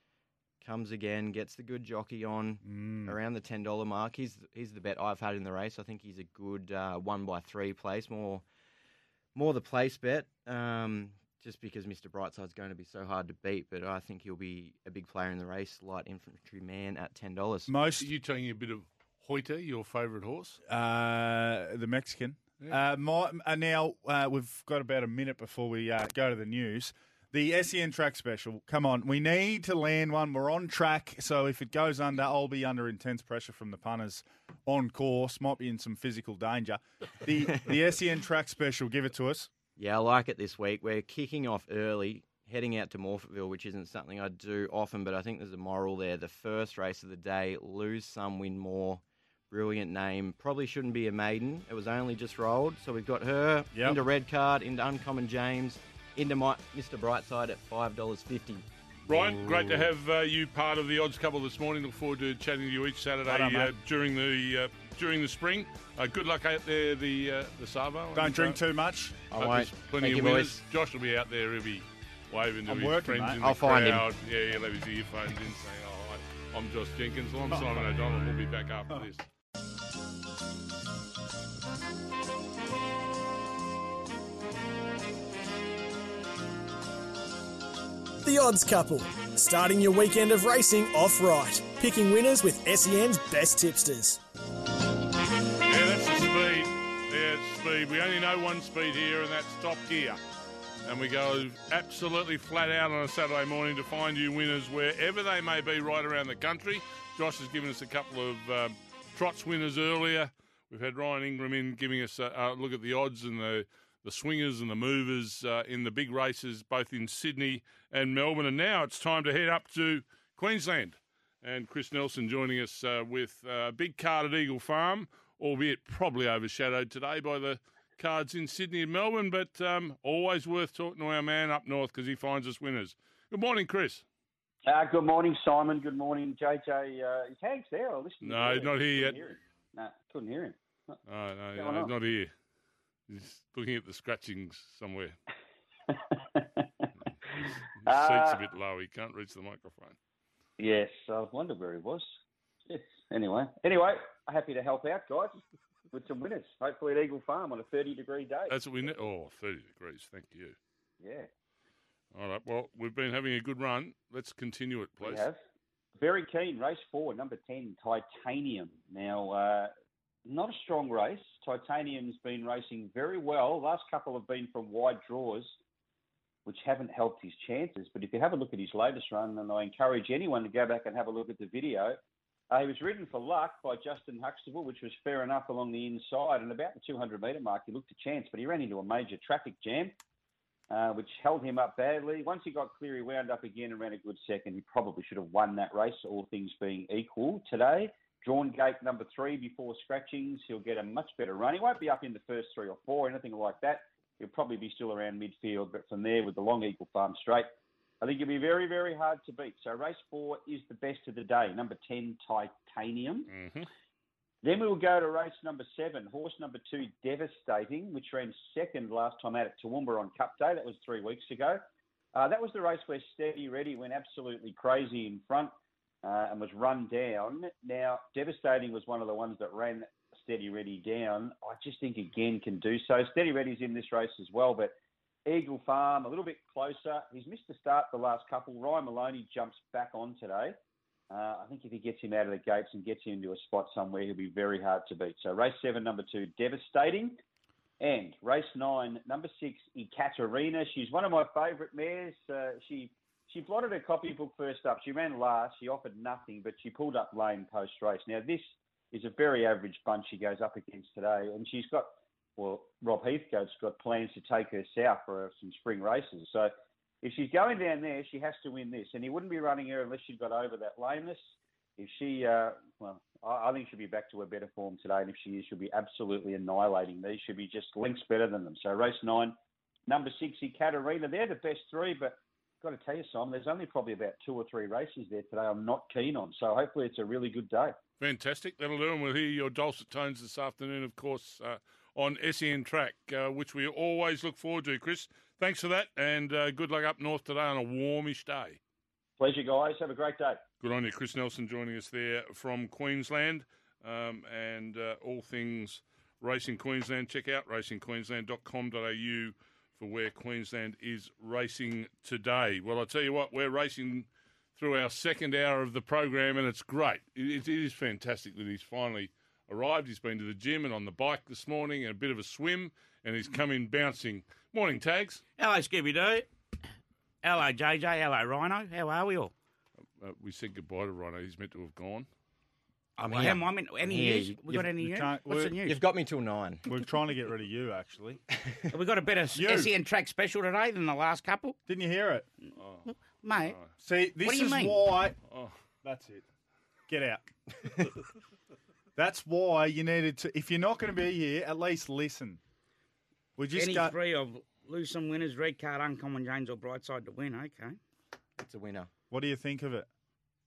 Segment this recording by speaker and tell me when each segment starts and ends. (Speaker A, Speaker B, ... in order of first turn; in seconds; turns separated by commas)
Speaker A: 0.6-8.4, Speaker B: 2.6-3.2, Speaker A: 9.3-17.7, Speaker B: 17.7-18.1, Speaker C: 18.0-20.6, Speaker B: 20.7-39.5, Speaker A: 39.8-58.6, Speaker B: 53.7-54.0, Speaker C: 59.1-68.6, Speaker B: 59.1-59.9, Speaker B: 63.3-63.7, Speaker B: 68.2-69.2, Speaker A: 69.3-70.6, Speaker C: 69.4-79.2, Speaker B: 72.7-73.5, Speaker A: 73.4-74.1, Speaker D: 88.2-94.2, Speaker C: 95.7-100.2, Speaker C: 100.8-134.1, Speaker E: 134.7-141.0, Speaker C: 138.2-139.2, Speaker C: 141.1-142.3, Speaker E: 141.6-141.9, Speaker C: 143.1-145.2, Speaker E: 145.9-146.7, Speaker C: 147.8-150.0, Speaker E: 147.9-148.5, Speaker E: 150.6-152.1, Speaker E: 152.7-155.4, Speaker E: 155.9-158.6, Speaker C: 158.5-160.6, Speaker E: 161.0-161.3, Speaker C: 162.1-165.2, Speaker E: 165.0-165.4, Speaker E: 166.0-169.7, Speaker E: 170.3-175.6, Speaker E: 176.5-182.0, Speaker E: 182.5-190.0, Speaker E: 190.7-207.5, Speaker E: 208.0-213.3, Speaker C: 213.3-213.7, Speaker E: 214.4-221.6, Speaker E: 222.2-234.7, Speaker E: 235.3-240.6, Speaker E: 241.1-247.2, Speaker E: 247.8-279.4, Speaker E: 279.9-287.8, Speaker C: 288.0-298.6, Speaker E: 299.2-300.4, Speaker C: 300.6-325.2, Speaker F: 325.4-326.3, Speaker F: 327.2-329.3, Speaker C: 330.0-332.1, Speaker F: 333.0-335.8, Speaker A: 333.1-334.7, Speaker B: 334.7-335.6, Speaker A: 335.6-336.6, Speaker B: 336.7-338.2, Speaker F: 338.7-341.6, Speaker B: 339.4-339.7, Speaker B: 341.7-342.3, Speaker C: 342.6-342.9, Speaker F: 342.9-343.6, Speaker B: 343.8-345.2, Speaker F: 344.2-344.8, Speaker C: 345.3-345.6, Speaker B: 345.8-346.2, Speaker B: 346.9-347.2, Speaker B: 349.0-352.4, Speaker B: 353.4-354.0, Speaker F: 353.5-357.8, Speaker A: 358.4-358.9, Speaker B: 359.1-359.9